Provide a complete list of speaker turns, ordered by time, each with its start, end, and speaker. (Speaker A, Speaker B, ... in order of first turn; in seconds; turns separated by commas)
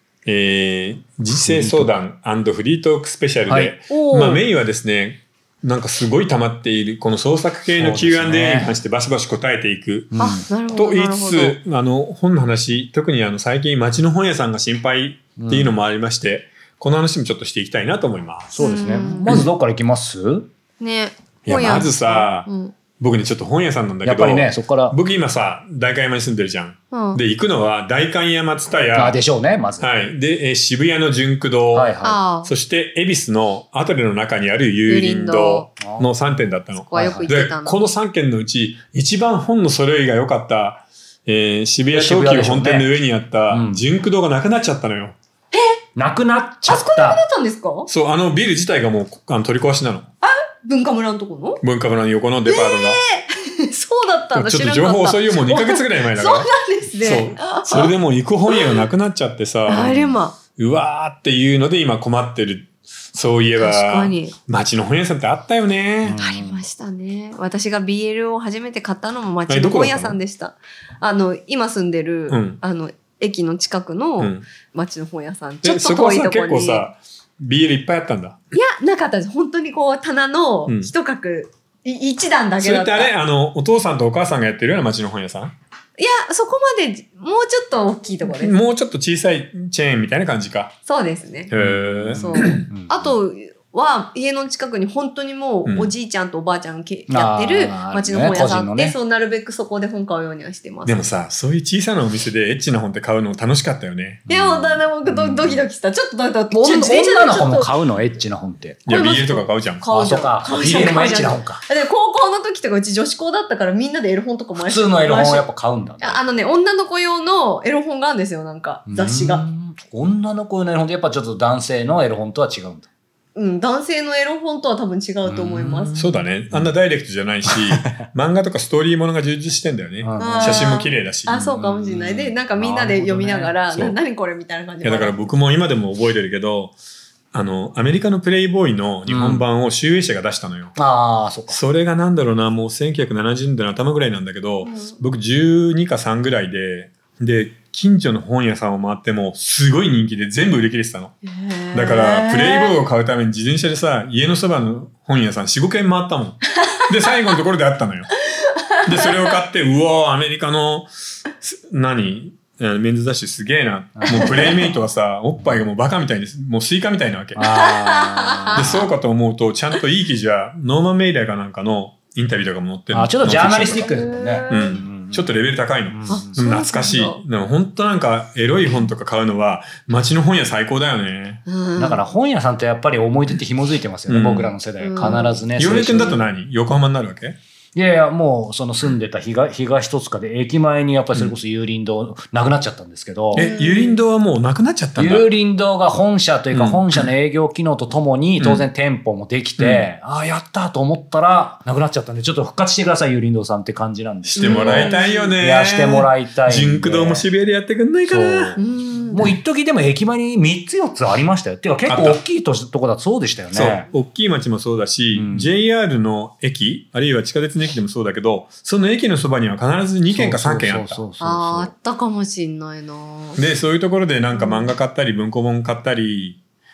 Speaker A: 0.2-18.7, Speaker B: 1.4-1.9, Speaker B: 3.5-3.7, Speaker C: 3.9-4.5, Speaker B: 7.8-8.7, Speaker B: 10.1-10.4, Speaker C: 10.2-11.6, Speaker B: 15.4-15.8, Speaker C: 18.6-19.3, Speaker B: 18.6-20.5, Speaker C: 20.8-22.7, Speaker A: 21.5-29.2, Speaker B: 24.0-25.0, Speaker C: 26.9-27.2, Speaker B: 28.9-29.9, Speaker A: 29.8-45.2, Speaker B: 31.7-32.2, Speaker C: 32.0-32.5, Speaker C: 34.9-35.7, Speaker B: 35.8-36.1, Speaker C: 36.9-37.8, Speaker B: 37.0-37.3, Speaker B: 41.9-42.9, Speaker B: 43.5-43.8, Speaker C: 45.5-45.8, Speaker B: 46.0-47.2, Speaker C: 46.7-47.9, Speaker A: 47.9-50.1, Speaker C: 50.2-51.6, Speaker A: 51.6-53.0, Speaker C: 52.5-57.9, Speaker A: 54.3-66.2, Speaker C: 58.5-58.8, Speaker C: 59.7-60.4, Speaker C: 63.6-64.3, Speaker B: 66.0-66.7, Speaker C: 66.2-76.9, Speaker A: 69.5-70.2, Speaker A: 72.3-72.6, Speaker A: 74.2-74.5, Speaker A: 75.6-78.4, Speaker C: 78.5-83.1, Speaker A: 82.6-85.5, Speaker C: 86.0-88.6, Speaker A: 88.2-90.7, Speaker C: 90.9-91.5, Speaker A: 91.5-92.7, Speaker B: 91.6-93.1, Speaker C: 92.1-101.0, Speaker A: 95.7-95.9, Speaker B: 97.1-99.0, Speaker A: 100.8-104.2, Speaker B: 104.3-105.7, Speaker C: 104.3-107.7, Speaker B: 106.5-108.9, Speaker A: 108.9-109.9, Speaker C: 108.9-115.5, Speaker B: 109.9-111.6, Speaker B: 114.6-116.2, Speaker C: 116.0-119.4, Speaker B: 118.9-122.9, Speaker C: 123.4-126.0, Speaker B: 125.2-126.7, Speaker A: 126.0-131.4, Speaker B: 127.5-128.1, Speaker B: 130.0-130.7, Speaker C: 130.2-135.3, Speaker B: 131.3-133.6, Speaker A: 134.8-136.7, Speaker A: 137.3-140.8, Speaker B: 139.1-139.4, Speaker B: 140.8-141.6, Speaker A: 141.5-151.2, Speaker C: 144.6-145.0, Speaker C: 151.2-152.8, Speaker A: 151.7-158.2, Speaker C: 158.3-159.3, Speaker A: 158.8-167.5, Speaker B: 164.0-164.8, Speaker C: 164.1-164.5, Speaker B: 167.4-168.9, Speaker C: 167.4-168.9, Speaker A: 168.5-173.9, Speaker B: 172.9-175.3, Speaker C: 173.9-174.8, Speaker A: 174.5-181.4, Speaker B: 175.9-176.3, Speaker C: 176.1-177.2, Speaker C: 181.5-182.0, Speaker B: 181.8-186.2, Speaker A: 184.1-184.5, Speaker C: 184.8-185.4, Speaker A: 185.6-187.4, Speaker B: 187.8-193.5, Speaker A: 193.3-195.3, Speaker C: 193.3-194.0, Speaker B: 195.0-207.3, Speaker A: 196.5-197.1, Speaker A: 198.4-198.7, Speaker A: 199.6-199.9, Speaker A: 204.3-208.6, Speaker C: 204.4-205.3, Speaker B: 208.1-213.9, Speaker C: 208.6-209.2, Speaker A: 211.9-212.2, Speaker A: 213.5-221.0, Speaker B: 215.1-215.5, Speaker B: 220.1-221.7, Speaker C: 221.2-223.4, Speaker A: 223.4-226.4, Speaker C: 224.3-224.7